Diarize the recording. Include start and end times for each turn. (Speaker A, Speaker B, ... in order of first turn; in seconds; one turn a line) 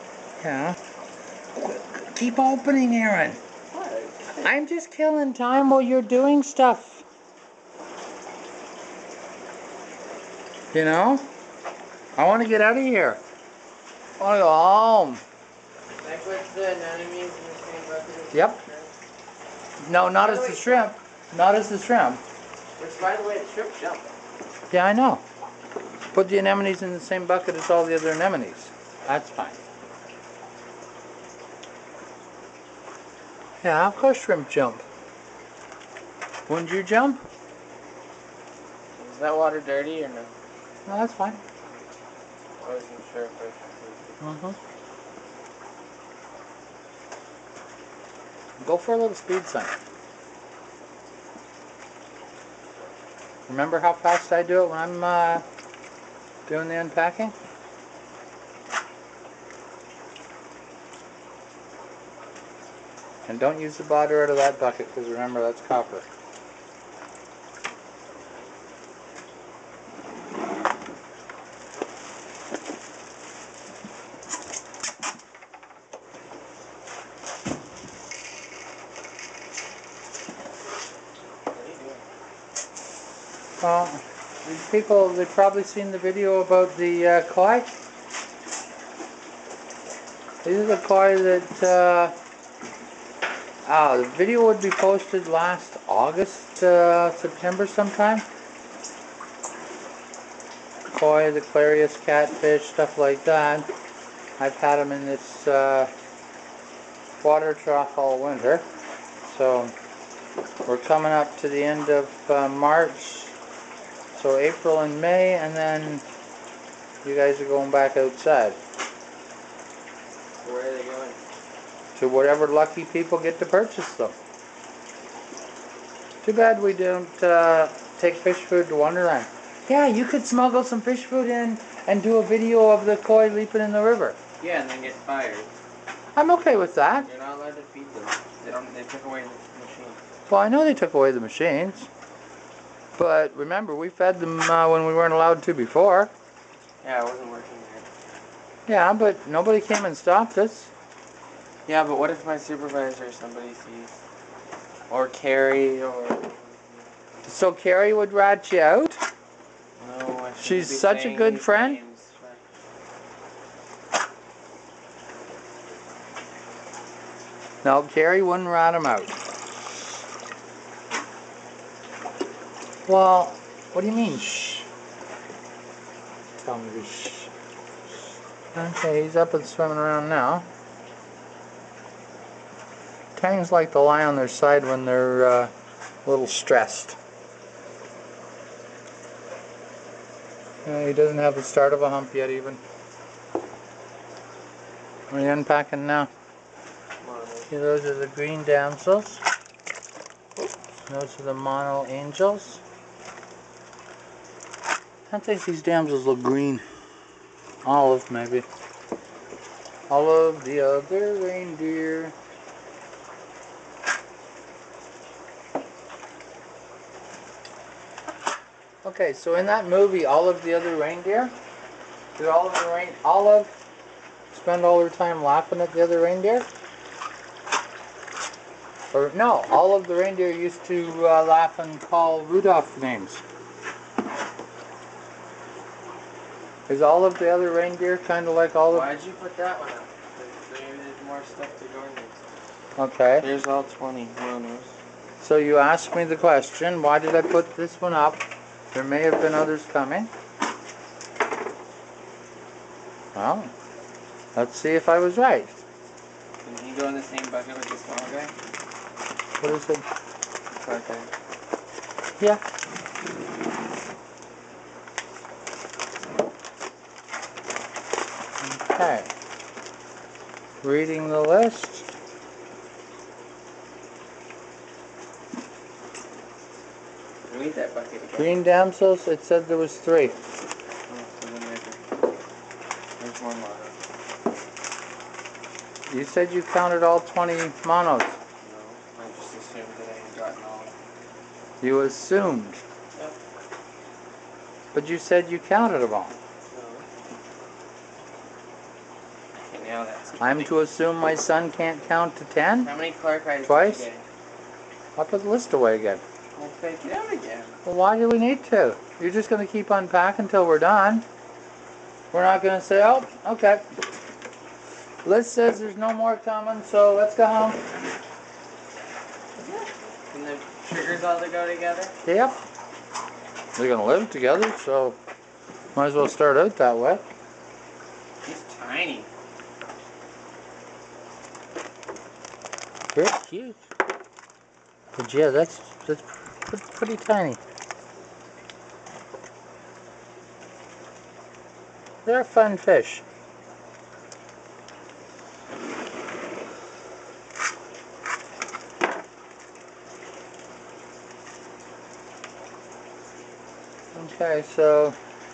Speaker A: 0.4-0.8
Speaker A: 1.6-3.4
Speaker B: 3.7-4.4
Speaker A: 4.4-7.0
Speaker A: 10.7-11.3
Speaker A: 12.2-13.2
Speaker A: 14.2-15.2
Speaker B: 16.0-18.9
Speaker A: 18.3-18.6
Speaker A: 19.8-22.2
Speaker B: 20.2-20.9
Speaker B: 22.8-24.1
Speaker A: 24.7-25.2
Speaker A: 26.1-29.6
Speaker A: 33.6-34.9
Speaker A: 36.5-37.2
Speaker B: 39.0-40.3
Speaker A: 40.9-41.4
Speaker B: 42.6-44.1
Speaker A: 44.2-44.6
Speaker A: 48.6-49.7
Speaker A: 53.5-55.4
Speaker A: 56.5-57.3
Speaker A: 63.2-66.1
Speaker B: 81.5-82.0
Speaker A: 83.6-87.7
Speaker A: 90.4-92.2
Speaker A: 93.6-98.2
Speaker A: 100.9-103.7
Speaker A: 104.4-105.9
Speaker A: 107.2-108.7
Speaker A: 109.2-109.7
Speaker A: 110.7-113.3
Speaker A: 114.1-116.0
Speaker A: 117.0-118.6
Speaker B: 120.4-121.2
Speaker A: 121.9-124.2
Speaker A: 126.2-134.2
Speaker B: 134.4-135.5
Speaker A: 136.2-137.1
Speaker B: 137.0-140.0
Speaker A: 140.3-141.9
Speaker A: 142.9-146.1
Speaker B: 146.8-147.8
Speaker A: 148.7-150.7
Speaker B: 151.7-153.9
Speaker B: 154.9-156.9
Speaker A: 157.2-159.0
Speaker B: 159.8-162.4
Speaker A: 160.4-161.8
Speaker A: 167.6-169.2
Speaker A: 172.9-174.7
Speaker A: 176.4-177.3
Speaker A: 177.9-180.5
Speaker A: 183.2-185.5
Speaker A: 186.1-187.0
Speaker A: 190.6-192.6
Speaker A: 195.1-196.1
Speaker B: 197.0-197.5
Speaker A: 197.5-199.2
Speaker A: 200.9-202.6
Speaker A: 205.1-206.6
Speaker A: 207.6-208.4
Speaker A: 209.9-212.1
Speaker A: 218.8-221.3
Speaker A: 222.2-223.5
Speaker A: 224.3-226.5
Speaker A: 228.9-233.2
Speaker A: 236.7-238.9
Speaker B: 238.7-242.2
Speaker A: 242.8-243.3
Speaker B: 243.2-244.7
Speaker A: 245.2-250.1
Speaker A: 253.1-253.5
Speaker A: 254.3-255.6
Speaker B: 256.4-258.3
Speaker A: 259.4-259.8
Speaker B: 260.5-261.1
Speaker A: 268.4-269.1
Speaker A: 270.6-271.9
Speaker B: 277.3-278.4
Speaker A: 278.2-280.2
Speaker B: 280.9-281.8
Speaker B: 283.0-283.8
Speaker A: 285.9-288.2
Speaker B: 288.4-290.7
Speaker A: 291.6-292.6
Speaker A: 294.7-296.1
Speaker B: 296.5-296.9
Speaker B: 299.4-300.6
Speaker A: 300.2-302.7
Speaker B: 302.6-304.0
Speaker A: 303.4-303.9
Speaker A: 305.0-306.0
Speaker B: 306.4-307.5
Speaker A: 307.6-311.1
Speaker A: 312.1-313.6
Speaker A: 315.0-317.6
Speaker B: 319.4-321.9
Speaker A: 322.0-322.4
Speaker A: 323.6-325.0
Speaker A: 325.7-327.0
Speaker B: 328.2-329.1
Speaker A: 332.9-333.6
Speaker A: 334.9-337.4
Speaker A: 342.1-343.0
Speaker A: 353.9-355.0